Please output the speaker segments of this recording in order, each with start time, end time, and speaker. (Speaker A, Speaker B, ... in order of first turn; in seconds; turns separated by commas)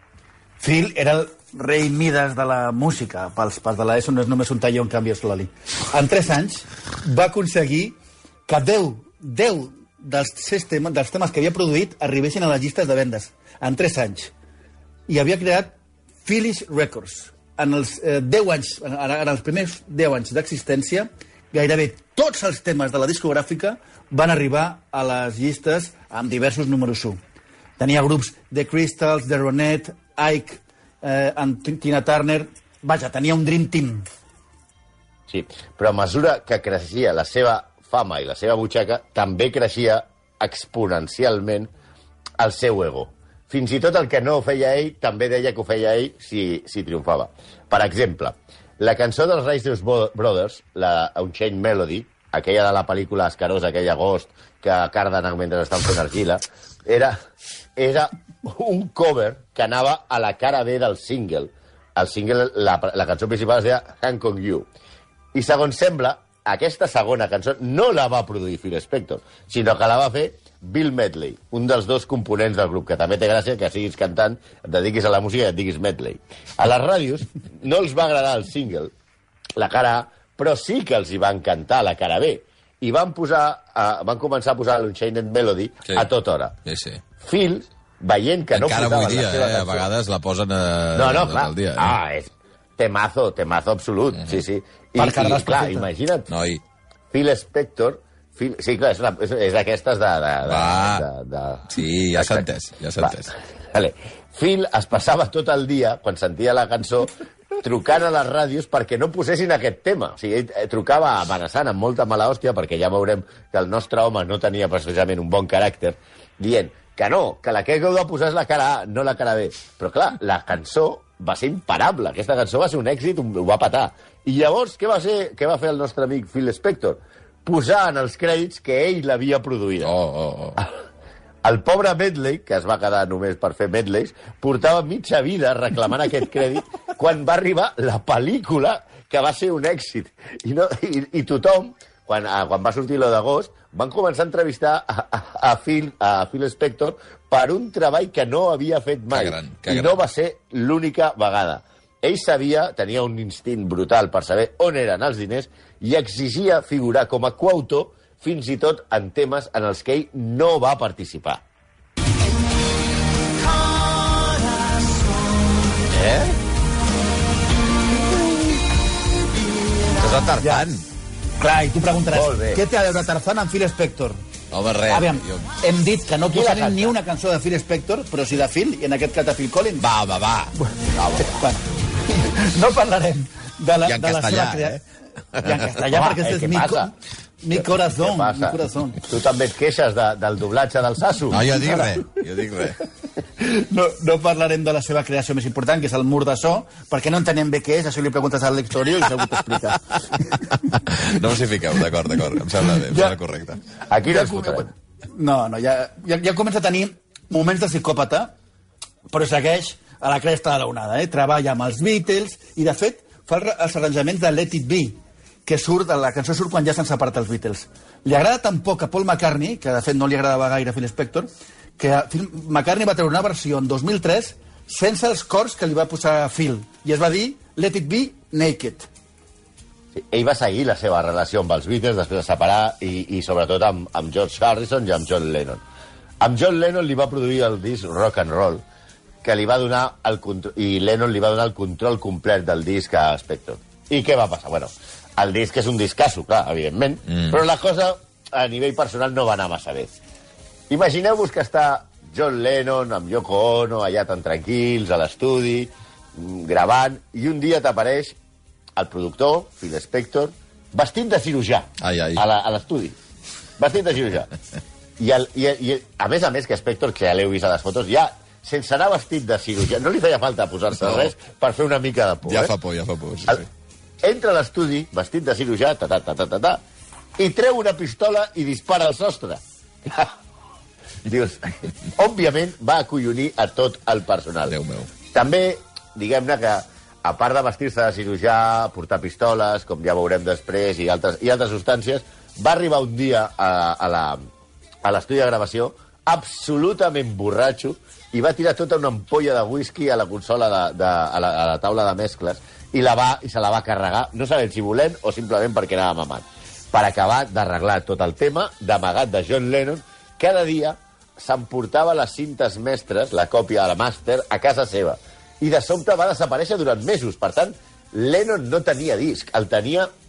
Speaker A: 0.6-14.3, Speaker A: 15.1-27.2, Speaker A: 27.8-34.0, Speaker B: 35.3-41.7, Speaker B: 42.4-57.2, Speaker B: 57.8-64.7, Speaker B: 65.3-78.9, Speaker B: 79.6-86.5, Speaker C: 86.6-87.0, Speaker B: 87.2-89.9, Speaker C: 88.5-92.0, Speaker B: 90.9-96.3, Speaker A: 95.0-95.9, Speaker C: 96.3-96.6, Speaker B: 97.1-102.4, Speaker C: 100.4-101.0, Speaker C: 101.7-103.3, Speaker B: 103.0-129.9, Speaker C: 129.8-130.6, Speaker B: 131.4-161.4, Speaker C: 149.1-150.0, Speaker C: 165.9-166.4, Speaker C: 169.9-170.8, Speaker A: 170.4-170.7, Speaker A: 171.4-174.2, Speaker B: 172.1-172.6, Speaker C: 174.5-175.5, Speaker A: 174.9-179.8, Speaker B: 176.3-176.9, Speaker C: 179.8-180.5, Speaker A: 180.6-184.8, Speaker B: 180.9-181.4, Speaker C: 183.8-184.8, Speaker A: 185.4-189.0, Speaker B: 185.9-186.9, Speaker B: 187.5-191.4, Speaker C: 191.3-192.8, Speaker A: 191.6-191.9, Speaker A: 193.4-200.7, Speaker C: 200.7-203.6, Speaker A: 202.7-203.1, Speaker B: 203.9-204.7, Speaker A: 204.1-208.3, Speaker A: 209.1-228.9, Speaker B: 229.9-235.6, Speaker B: 236.2-238.6, Speaker B: 239.2-249.9, Speaker B: 250.7-258.1, Speaker B: 258.8-262.9, Speaker C: 261.8-262.2, Speaker B: 263.6-264.3, Speaker B: 265.0-272.5, Speaker C: 270.8-271.1, Speaker C: 272.2-273.5, Speaker B: 274.0-276.6, Speaker B: 277.2-280.1, Speaker B: 281.0-284.5, Speaker C: 284.5-284.9, Speaker B: 285.1-294.2, Speaker B: 294.8-319.9